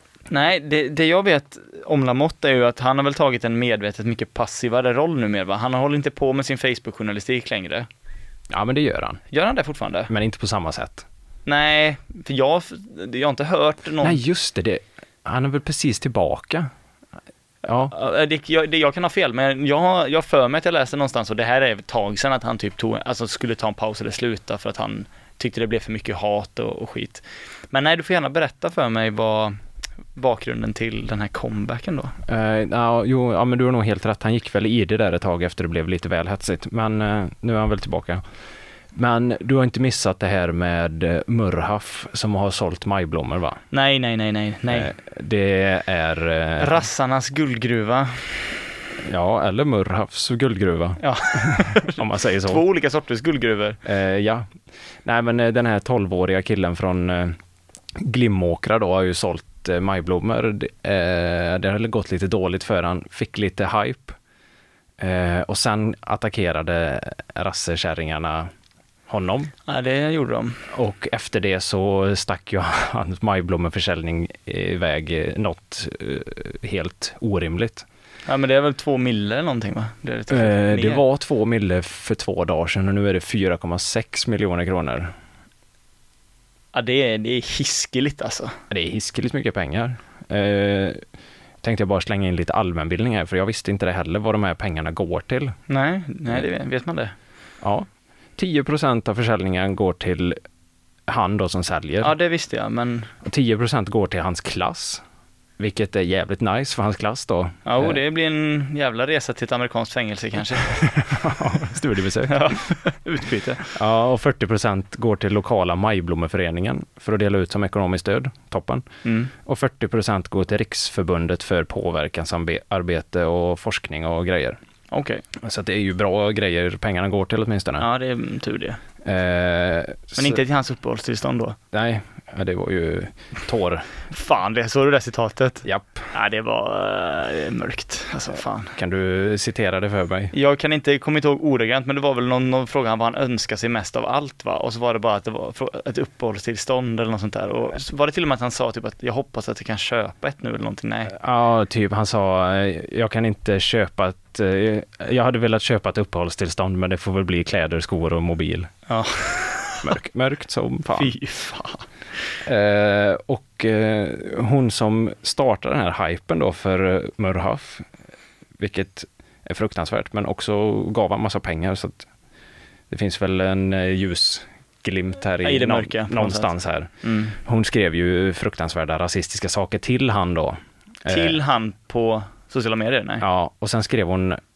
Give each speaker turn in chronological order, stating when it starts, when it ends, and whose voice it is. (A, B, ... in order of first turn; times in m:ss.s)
0:00.3-0:07.9 A
0:08.5-0:09.2 B
0:09.3-0:10.1 A
0:10.1-0:11.1 B
0:11.4-0:14.2 A
0:14.0-0:16.7 B
0:17.6-0:17.9 B
0:17.9-0:29.6 A
0:30.2-0:32.1 A
0:32.3-0:38.2 B
0:38.9-0:43.6 B
0:43.7-0:44.9 A
0:44.7-0:46.8 B
0:46.6-0:48.5 A
0:49.0-0:52.6 B
0:51.0-0:53.8 A
0:53.8-0:54.5 B
0:55.0-0:57.4 B
0:58.0-1:04.2 B
1:05.0-1:08.5 B
1:09.1-1:09.5 B
1:09.7-1:10.6 A
1:10.7-1:17.8 B
1:18.3-1:21.0 A
1:20.3-1:25.1 B
1:26.7-1:28.6 A
1:28.7-1:31.0 B
1:31.6-1:35.6 B
1:35.7-1:37.1 A
1:37.6-1:40.4 B
1:41.1-1:42.1 B
1:42.0-1:43.1 A
1:43.2-1:45.0 B
1:45.6-1:48.0 B
1:47.6-1:50.8 A
1:50.6-1:52.5 B
1:52.3-1:53.7 A
1:53.7-1:58.9 B
1:59.0-1:59.3 A
1:59.4-2:04.6 B
2:04.9-2:05.2 A
2:05.4-2:07.9 B
2:07.8-2:08.8 A
2:09.0-2:10.4 B
2:10.2-2:11.6 A
2:11.7-2:13.9 B
2:14.1-2:18.7 A
2:15.6-2:16.1 B
2:18.8-2:20.3 B
2:20.3-2:31.1 A
2:31.1-2:38.7 B
2:38.9-2:39.9 A
2:39.8-2:41.1 B
2:40.9-2:41.9 A
2:42.4-2:47.9 B
2:48.6-2:52.1 B
2:52.9-3:01.4 B
2:55.4-2:57.4 A
3:01.1-3:03.2 A
3:03.2-3:04.4 B